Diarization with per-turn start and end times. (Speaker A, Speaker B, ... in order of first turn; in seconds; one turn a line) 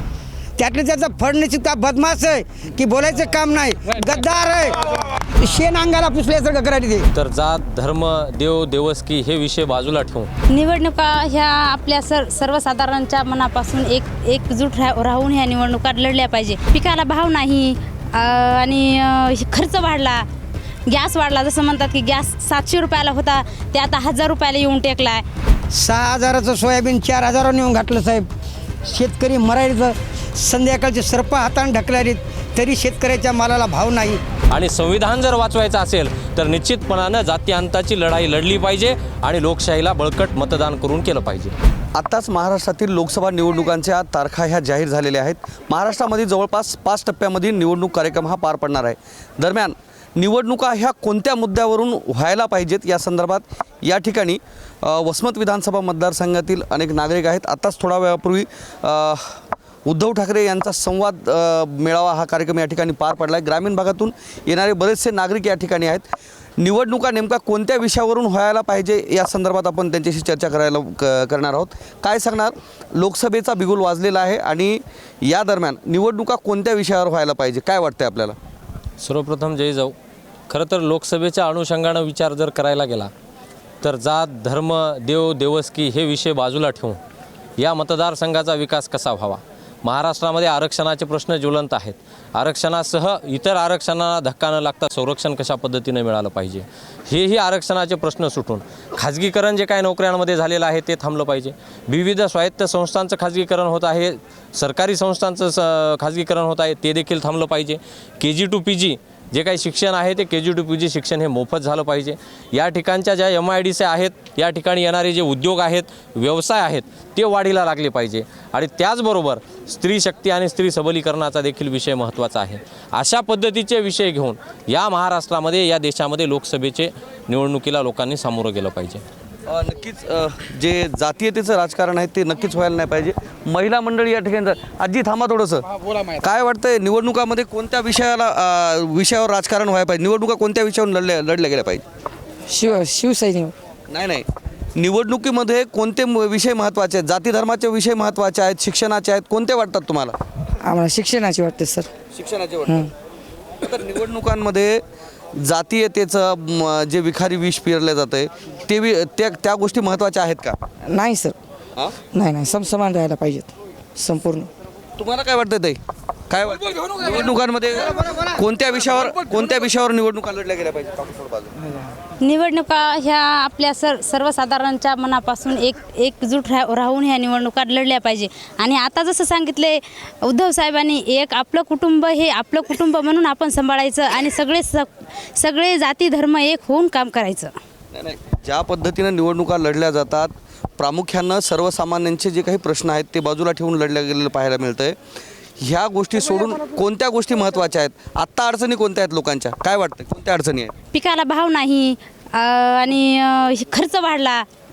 Speaker A: 0.6-7.1
Speaker B: 7.1-10.3
Speaker C: 10.5-20.3
Speaker C: 20.9-25.2
Speaker A: 25.7-28.2
Speaker A: 28.8-34.2
Speaker B: 34.5-41.5
Speaker D: 41.9-66.0
Speaker D: 66.6-78.3
Speaker B: 79.0-79.9
Speaker B: 80.5-83.1
Speaker B: 83.8-87.0
Speaker B: 87.6-129.0
Speaker D: 129.5-135.6
Speaker D: 136.2-141.8
Speaker E: 142.5-143.5
Speaker D: 143.9-150.2
Speaker E: 150.6-151.9
Speaker D: 152.1-152.8
Speaker D: 153.6-154.8
Speaker D: 155.4-160.6
Speaker E: 160.9-161.3
Speaker E: 162.1-164.5
Speaker D: 165.0-165.8
Speaker D: 166.3-171.5
Speaker A: 167.8-168.3
Speaker C: 172.2-187.5
Speaker D: 187.9-194.9
Speaker D: 195.6-200.7
Speaker C: 200.9-204.5